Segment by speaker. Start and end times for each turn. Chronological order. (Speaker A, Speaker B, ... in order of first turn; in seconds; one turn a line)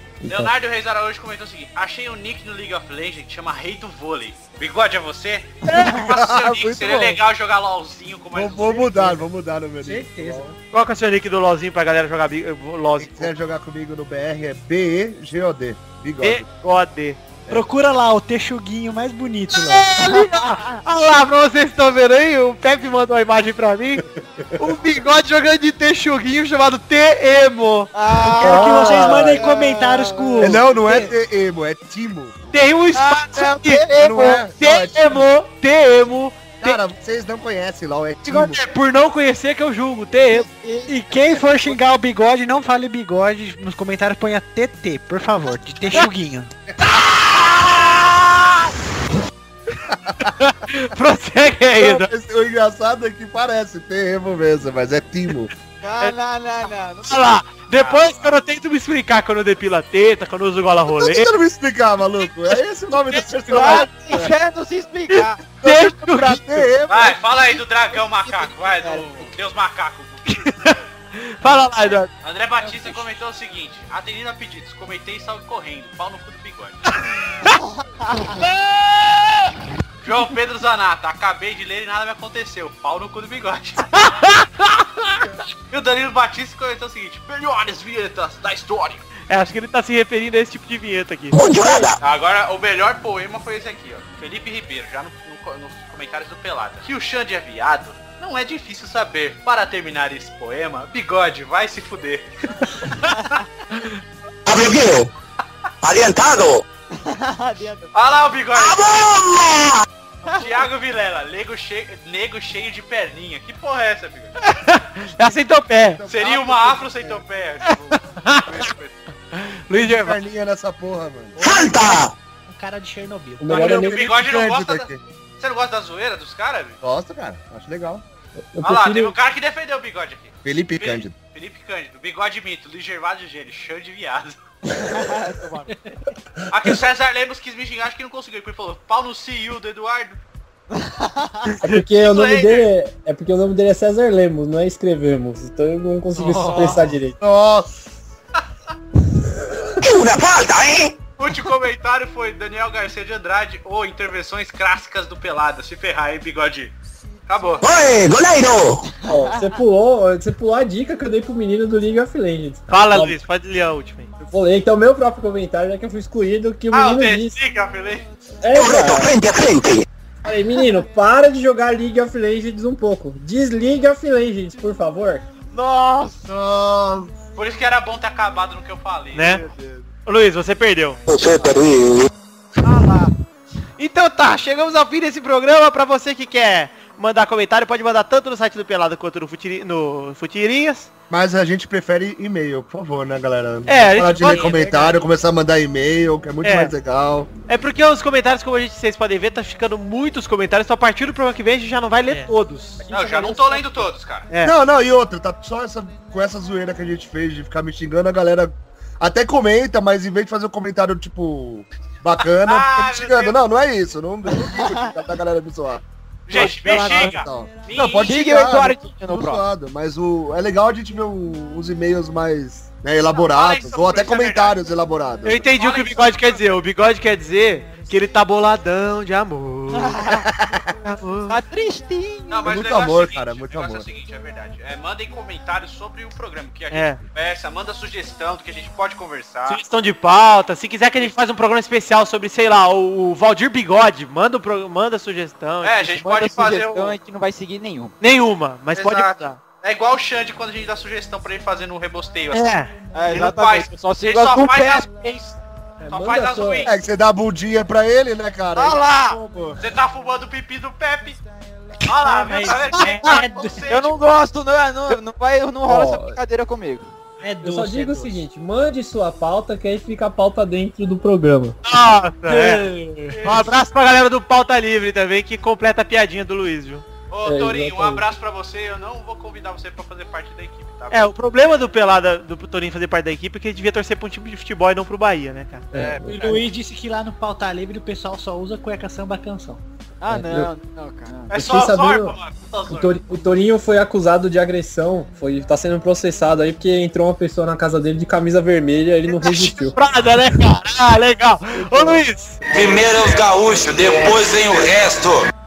Speaker A: 0.2-0.5
Speaker B: 0.3-8.9
Speaker C: 5.7-7.2
Speaker C: 8.3-10.4
Speaker D: 8.6-9.2
Speaker D: 9.8-10.6
Speaker E: 10.7-13.3
Speaker C: 13.0-16.4
Speaker E: 16.2-17.2
Speaker D: 17.5-19.9
Speaker E: 19.5-24.0
Speaker F: 20.1-20.8
Speaker E: 24.6-27.9
Speaker F: 27.9-30.6
Speaker D: 28.4-30.6
Speaker A: 28.4-29.4
Speaker C: 30.4-32.6
Speaker E: 30.7-31.1
Speaker E: 32.5-36.8
Speaker F: 32.9-34.4
Speaker C: 34.0-35.2
Speaker C: 36.6-38.6
Speaker E: 38.2-40.5
Speaker F: 40.3-41.8
Speaker D: 40.9-46.5
Speaker C: 46.7-47.1
Speaker C: 49.8-50.3
Speaker E: 50.2-52.1
Speaker C: 51.7-55.5
Speaker F: 55.8-57.4
Speaker E: 57.0-61.3
Speaker B: 57.7-58.4
Speaker C: 60.9-63.9
Speaker E: 63.1-64.2
Speaker F: 63.5-65.4
Speaker E: 65.1-66.7
Speaker C: 65.6-67.3
Speaker B: 66.9-70.7
Speaker F: 68.0-69.3
Speaker E: 70.3-72.1
Speaker B: 72.2-76.8
Speaker E: 77.0-77.6
Speaker F: 78.0-78.4
Speaker B: 80.0-84.1
Speaker E: 83.9-84.7
Speaker B: 85.7-89.0
Speaker E: 89.3-91.3
Speaker G: 91.3-92.0
Speaker B: 92.0-102.2
Speaker G: 104.5-105.1
Speaker G: 105.8-106.6
Speaker F: 107.0-107.9
Speaker B: 107.9-108.8
Speaker G: 108.5-109.8
Speaker F: 110.2-110.6
Speaker B: 110.3-114.4
Speaker E: 114.5-116.0
Speaker C: 115.9-117.2
Speaker B: 116.1-119.0
Speaker E: 117.9-118.5
Speaker E: 119.3-120.2
Speaker C: 119.8-121.4
Speaker G: 121.4-122.1
Speaker D: 122.5-123.7
Speaker A: 123.4-124.1
Speaker C: 123.5-125.0
Speaker B: 123.5-126.8
Speaker C: 126.8-128.0
Speaker A: 128.5-129.2
Speaker B: 128.6-134.4
Speaker C: 130.4-131.1
Speaker F: 134.7-135.7
Speaker B: 136.5-140.2
Speaker F: 140.7-141.5
Speaker A: 141.6-147.2
Speaker B: 141.9-142.7
Speaker F: 146.2-146.9
Speaker C: 147.2-147.8
Speaker G: 149.8-150.9
Speaker B: 151.2-156.7
Speaker B: 157.3-157.6
Speaker G: 157.6-158.8
Speaker A: 159.0-163.2
Speaker E: 162.7-164.1
Speaker A: 164.2-167.3
Speaker B: 166.7-168.0
Speaker A: 168.4-169.1
Speaker G: 168.5-169.8
Speaker A: 170.2-175.2
Speaker F: 175.5-176.2
Speaker C: 176.2-177.1
Speaker B: 177.3-179.4
Speaker E: 179.1-179.4
Speaker F: 179.3-179.9
Speaker E: 180.0-181.0
Speaker G: 181.1-182.1
Speaker F: 182.6-183.1
Speaker E: 183.8-190.9
Speaker C: 191.1-197.3
Speaker E: 193.7-194.5
Speaker D: 194.3-195.1
Speaker E: 196.4-196.7
Speaker E: 197.5-202.8
Speaker D: 202.1-202.3
Speaker A: 202.8-203.9
Speaker B: 202.9-204.3
Speaker E: 204.3-204.5
Speaker C: 204.4-215.8
Speaker B: 212.4-213.4
Speaker F: 214.5-214.9
Speaker B: 216.3-218.2
Speaker E: 216.3-217.2
Speaker C: 216.3-225.5
Speaker F: 218.0-219.4
Speaker B: 223.1-224.6
Speaker E: 225.2-230.1
Speaker B: 225.6-226.4
Speaker F: 229.8-230.2
Speaker E: 230.8-231.4
Speaker F: 231.3-232.6
Speaker B: 232.3-239.6
Speaker C: 232.4-233.9
Speaker E: 236.7-237.0
Speaker E: 239.5-246.0
Speaker B: 245.6-246.9
Speaker F: 246.0-247.9
Speaker E: 248.0-249.4
Speaker B: 248.7-252.5
Speaker E: 252.3-253.2
Speaker F: 252.9-254.8
Speaker B: 253.1-256.7
Speaker A: 255.8-256.7
Speaker C: 256.6-259.6
Speaker F: 258.5-259.2
Speaker B: 259.6-261.2
Speaker B: 261.9-264.0
Speaker D: 262.1-263.7
Speaker F: 262.8-263.1
Speaker F: 263.7-266.9
Speaker A: 265.6-266.2
Speaker D: 267.2-268.2
Speaker A: 267.4-271.6
Speaker E: 271.6-272.7
Speaker D: 272.3-273.3
Speaker E: 273.2-276.8
Speaker B: 277.1-281.1
Speaker A: 277.2-278.0
Speaker E: 280.9-285.7
Speaker A: 285.7-286.4
Speaker D: 286.0-289.6
Speaker F: 290.0-291.3
Speaker A: 290.1-290.5
Speaker A: 291.3-292.1
Speaker B: 291.3-293.0
Speaker A: 292.7-299.7
Speaker E: 299.2-302.4
Speaker A: 301.6-302.0
Speaker G: 302.5-305.3